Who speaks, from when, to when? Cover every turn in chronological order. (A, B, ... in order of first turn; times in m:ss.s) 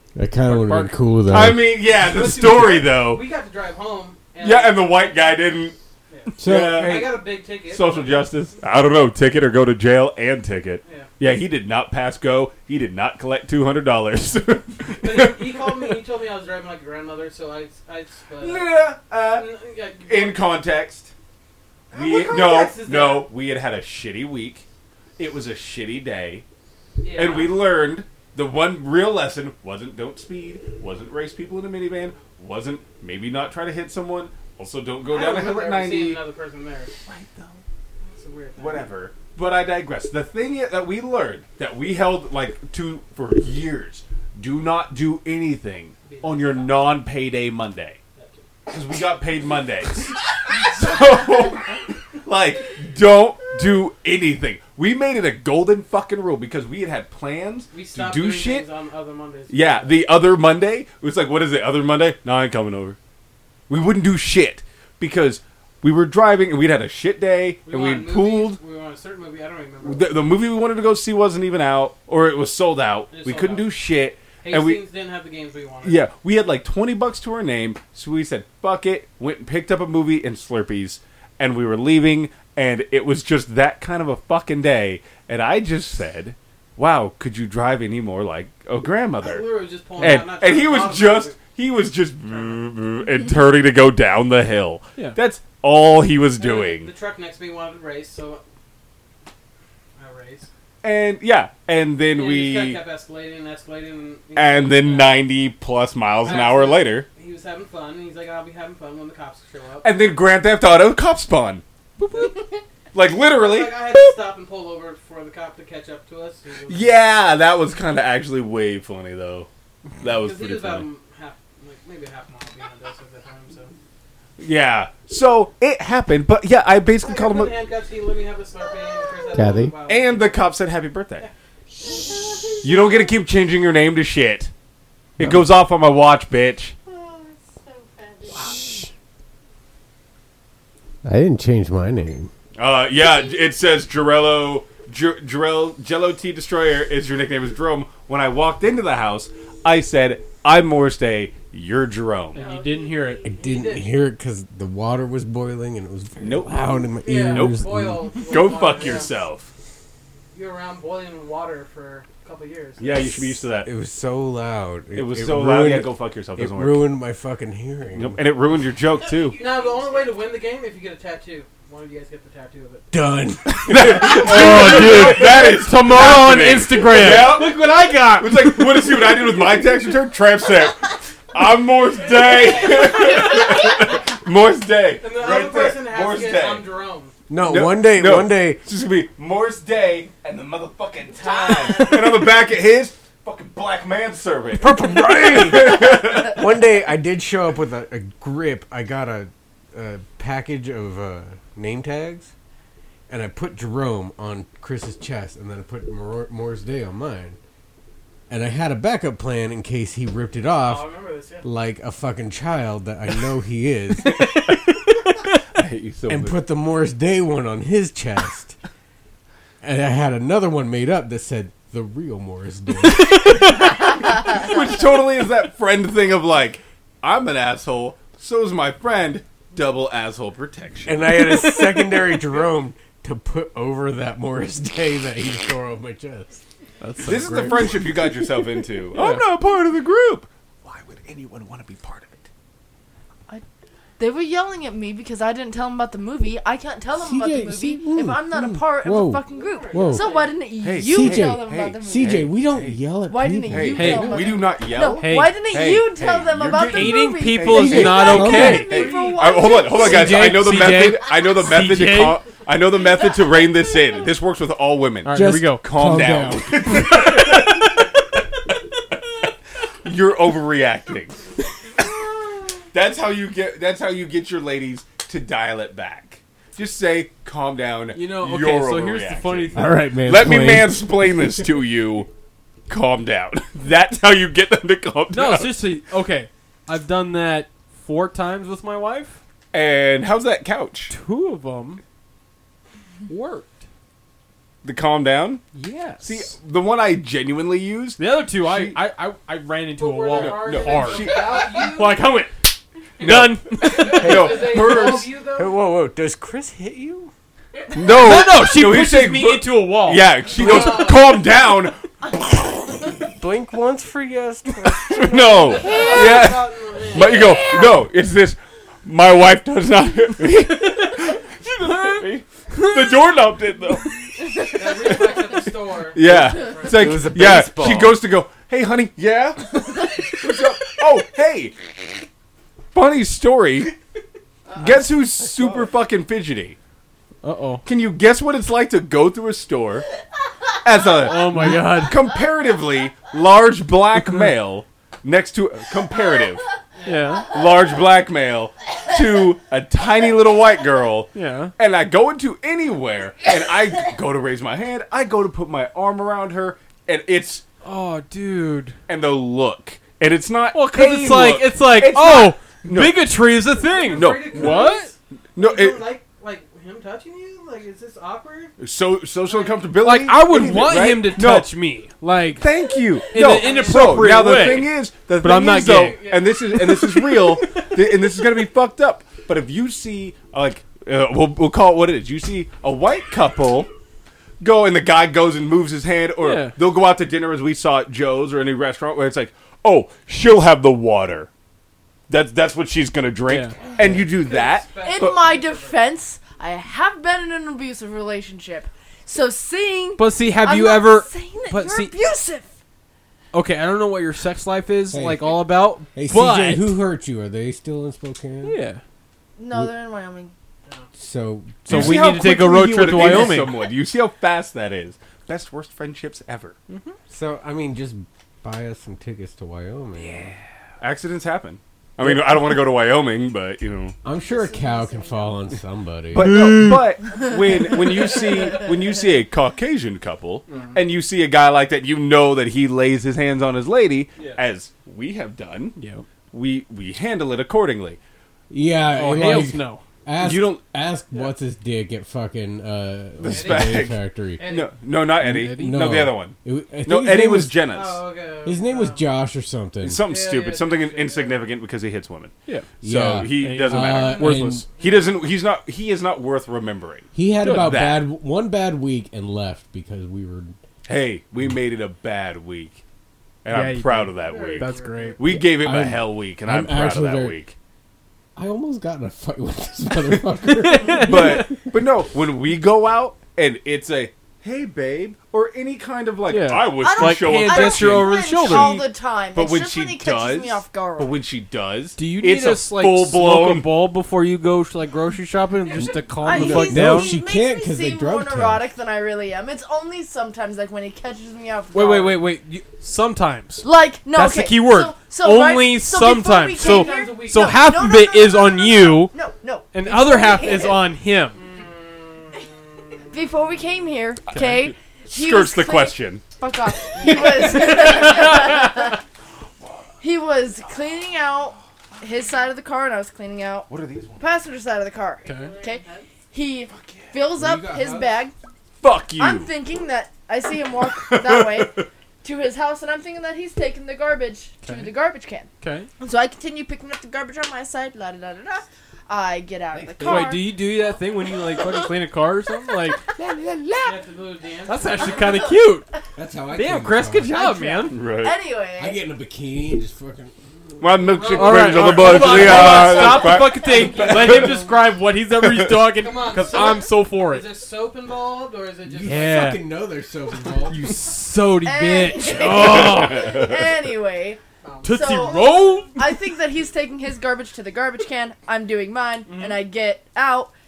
0:00.1-0:01.6 A
0:00.5-0:00.9 B
0:01.3-0:03.2 C
0:01.8-0:05.3 D
0:04.4-0:05.8 C
0:06.1-0:08.3 D
0:06.3-0:15.9 C
0:06.4-0:07.2 A
0:10.8-0:11.1 D
0:15.0-0:18.7 D
0:18.4-0:19.5 C
0:19.3-0:20.4 D
0:20.0-0:21.1 C
0:21.9-0:23.3 D
0:21.9-0:24.6 C
0:25.2-0:26.4 C
0:27.0-0:27.7 D
0:27.1-0:36.2 C
0:35.0-0:36.9 D
0:37.0-0:37.6 C
0:38.0-0:38.9 D
0:38.6-0:48.0 C
0:46.0-0:46.9 D
0:48.7-0:58.7 C
0:57.7-1:00.0 D
0:59.5-1:03.0 C
1:03.7-1:08.6 C
1:07.6-1:10.3 D
1:09.8-1:14.8 C
1:13.1-1:13.7 D
1:14.4-1:16.0 D
1:15.8-1:36.9 C
1:29.2-1:31.4 D
1:32.3-1:32.6 D
1:36.4-1:38.4 D
1:40.0-1:40.5 D
1:40.8-1:42.8 C
1:42.1-1:45.2 D
1:44.3-1:47.1 C
1:46.2-1:49.9 D
1:49.8-1:54.2 C
1:53.3-1:57.0 D
1:56.7-1:59.5 C
2:00.0-2:00.9 C
2:00.1-2:03.7 D
2:04.4-2:07.5 C
2:07.0-2:10.4 D
2:09.3-2:09.7 A
2:09.9-2:11.3 C
2:12.6-2:14.5 C
2:15.2-2:16.7 C
2:17.2-2:18.8 E
2:21.0-2:22.3 A
2:22.6-2:32.4 C
2:32.3-2:33.3 B
2:32.3-2:33.7 E
2:33.2-2:38.2 A
2:33.4-2:33.9 D
2:36.2-2:36.7 C
2:37.0-2:39.1 D
2:37.2-2:39.5 C
2:40.3-2:43.0 D
2:42.8-2:43.7 C
2:43.6-2:48.2 A
2:44.9-2:46.9 C
2:47.9-2:49.4 C
2:49.0-2:50.3 E
2:49.3-2:52.8 D
2:52.9-2:55.4 A
2:53.6-3:06.6 C
2:53.9-2:59.1 B
3:05.0-3:07.1 D
3:07.3-3:08.6 A
3:07.4-3:16.5 C
3:11.4-3:11.8 E
3:14.5-3:22.3 A
3:23.1-3:27.4 A
3:28.3-3:30.9 A
3:30.6-3:31.4 D
3:31.4-3:34.3 A
3:34.2-3:34.6 B
3:35.5-3:36.4 C
3:36.1-3:38.6 A
3:39.6-3:43.4 A
3:42.8-3:43.9 B
3:43.6-3:51.1 C
3:50.8-3:56.4 A
3:56.8-3:57.9 B
3:57.0-4:02.3 C
3:57.2-3:57.8 A
3:58.9-3:59.2 B
4:04.0-4:12.3 F
4:06.9-4:10.1 A
4:09.3-4:10.3 D
4:10.6-4:12.8 C
4:10.7-4:14.3 A
4:13.1-4:20.4 F
4:13.5-4:27.9 C
4:13.8-4:14.3 B
4:15.0-4:15.4 B
4:16.6-4:19.0 B
4:17.5-4:18.7 A
4:18.7-4:19.2 D
4:19.7-4:22.2 B
4:25.0-4:27.5 B
4:25.1-4:26.7 A
4:29.8-4:42.1 C
4:37.9-4:39.7 B
4:39.5-4:41.1 A
4:42.7-4:45.7 C
4:45.1-4:49.2 B
4:49.5-4:50.9 C
4:50.9-4:51.8 B
4:53.1-4:53.5 B
4:54.6-4:55.4 C
4:55.5-4:56.3 B
4:56.0-4:58.8 C
4:58.0-5:04.3 B
4:59.8-5:02.0 D
5:00.1-5:01.4 C
5:03.0-5:05.1 C
5:03.6-5:05.6 D
5:04.0-5:07.1 A
5:07.7-5:13.0 C
5:07.9-5:10.9 B
5:10.3-5:11.2 D
5:13.2-5:15.7 A
5:14.8-5:31.7 C
5:15.5-5:17.7 D
5:20.6-5:20.9 B
5:21.6-5:23.1 B
5:24.5-5:27.0 D
5:26.6-5:28.0 A
5:32.7-5:33.7 C
5:34.5-5:36.6 C
5:37.2-5:37.6 B
5:37.6-5:39.9 C
5:40.6-5:46.4 C
5:41.0-5:42.0 B
5:44.0-5:44.3 B
5:46.8-5:47.2 D
5:46.8-5:47.3 B
5:47.3-5:57.4 C
5:51.1-5:51.5 B
5:57.6-5:58.8 B
5:58.9-6:03.1 C
6:00.5-6:04.9 B
6:03.6-6:08.5 D
6:03.9-6:04.7 C
6:05.3-6:05.8 C
6:08.6-6:11.5 C
6:09.3-6:09.6 D
6:09.8-6:12.5 B
6:12.4-6:23.7 C
6:13.1-6:18.2 B
6:13.1-6:14.0 D
6:15.7-6:16.4 D
6:24.4-6:31.3 C
6:26.2-6:26.6 B
6:32.1-6:35.2 C
6:33.3-6:33.6 B
6:33.7-6:35.8 D
6:34.8-6:42.5 F
6:40.0-6:41.9 B
6:43.3-6:46.8 B
6:44.9-6:48.6 A
6:48.4-6:48.8 B
6:49.4-6:50.3 F
6:50.9-6:52.0 A
6:51.6-6:53.6 B
6:51.7-6:56.6 C
6:56.7-6:57.0 B
6:57.1-7:00.3 A
7:00.0-7:00.4 B
7:00.8-7:04.0 C
7:02.0-7:02.3 A
7:04.0-7:06.3 A
7:04.1-7:05.4 F
7:06.1-7:15.8 C
7:06.2-7:06.9 B
7:10.5-7:10.7 D
7:15.8-7:16.0 B
7:16.3-7:18.0 C
7:18.5-7:24.4 A
7:18.9-7:19.8 B
7:20.2-7:20.6 C
7:23.2-7:28.0 C
7:23.3-7:24.7 D
7:25.2-7:26.0 B
7:25.2-7:27.6 A
7:27.7-7:29.0 D
7:28.4-7:30.0 A
7:29.8-7:38.1 C
7:30.1-7:31.4 D
7:32.4-7:32.7 B
7:32.8-7:34.6 A
7:33.3-7:34.6 B
7:34.7-7:35.1 D
7:37.1-7:40.6 A
7:37.4-7:37.8 B
7:40.8-7:42.8 C
7:43.4-7:47.5 C
7:43.5-7:45.2 B
7:44.2-7:45.2 D
7:45.3-7:47.4 A
7:48.4-7:51.5 A
7:50.5-7:51.6 B
7:51.0-8:03.8 C
7:56.3-7:58.8 B
7:56.8-8:01.2 F
8:02.0-8:07.2 B
8:06.1-8:12.2 F
8:06.3-8:08.6 A
8:11.7-8:19.1 B
8:13.6-8:20.8 F
8:16.6-8:17.6 D
8:19.7-8:21.4 B
8:21.4-8:22.4 D
8:23.1-8:29.0 F
8:24.3-8:24.7 B
8:25.1-8:26.2 C
8:27.0-8:28.8 B
8:30.0-8:38.3 F
8:33.7-8:34.2 C
8:35.2-8:35.5 B
8:35.2-8:36.1 E
8:36.7-8:37.2 C
8:37.4-8:38.2 A
8:38.8-8:39.5 C
8:39.2-8:50.5 F
8:40.9-8:41.9 C
8:44.6-8:44.9 B
8:45.6-8:45.9 B
8:49.7-8:50.3 A
8:50.0-8:53.1 B
8:53.8-8:55.1 D
8:54.6-8:55.8 B
8:55.1-8:55.5 F
8:56.1-8:57.4 A
8:56.5-8:58.0 B
8:57.3-8:59.0 F
8:57.9-8:58.4 C
8:58.8-9:01.1 A
9:00.8-9:04.8 C
9:01.1-9:04.6 D
9:01.3-9:07.5 B
9:02.2-9:02.7 A
9:05.3-9:06.0 C
9:06.0-9:09.5 D
9:08.9-9:10.8 A
9:09.0-9:09.6 B
9:10.6-9:13.4 B
9:11.6-9:20.5 F
9:12.4-9:13.7 C
9:14.6-9:15.2 D
9:14.8-9:16.2 B
9:19.3-9:19.6 B